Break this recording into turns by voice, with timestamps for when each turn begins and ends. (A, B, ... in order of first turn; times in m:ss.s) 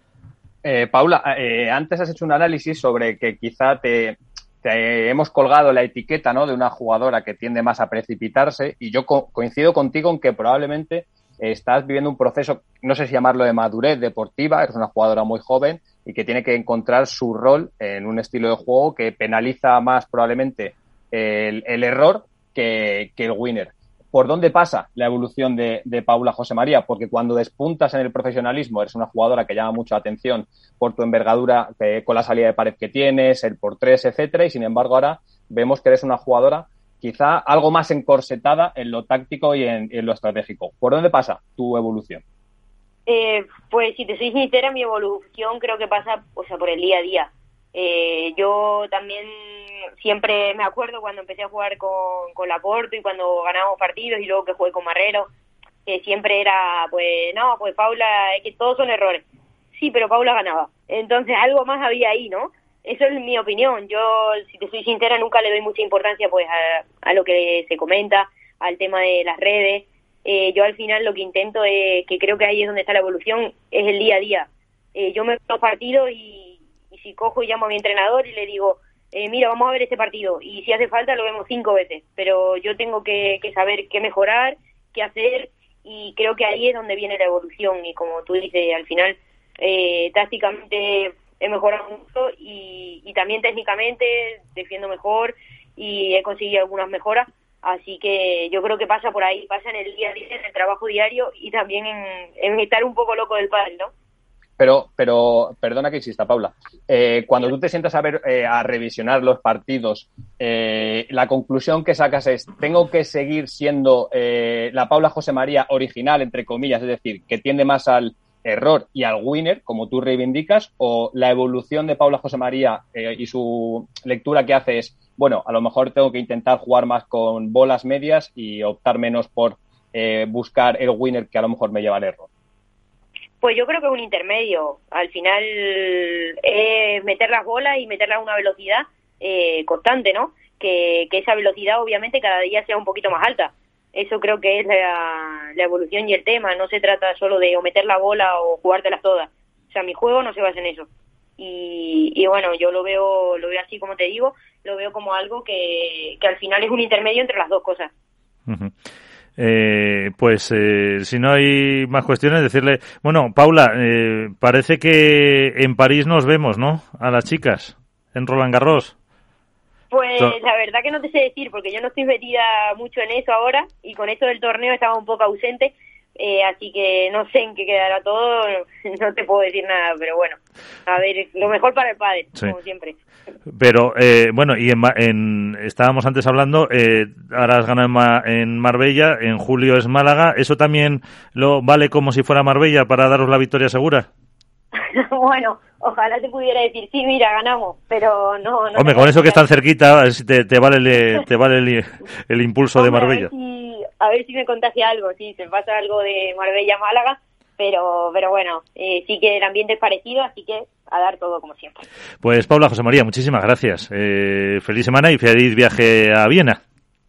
0:00.6-0:42.2 A
0:43.1-0:55.3 B
0:55.8-1:43.9 B
1:44.6-2:12.3 A
2:13.4-2:37.9 B
2:38.5-2:38.7 C
2:39.4-2:48.9 C
2:49.9-3:03.0 B
3:03.5-3:14.1 C
3:14.8-3:19.4 B
3:18.8-3:23.3 C
3:22.8-3:31.8 B
3:32.2-3:36.6 C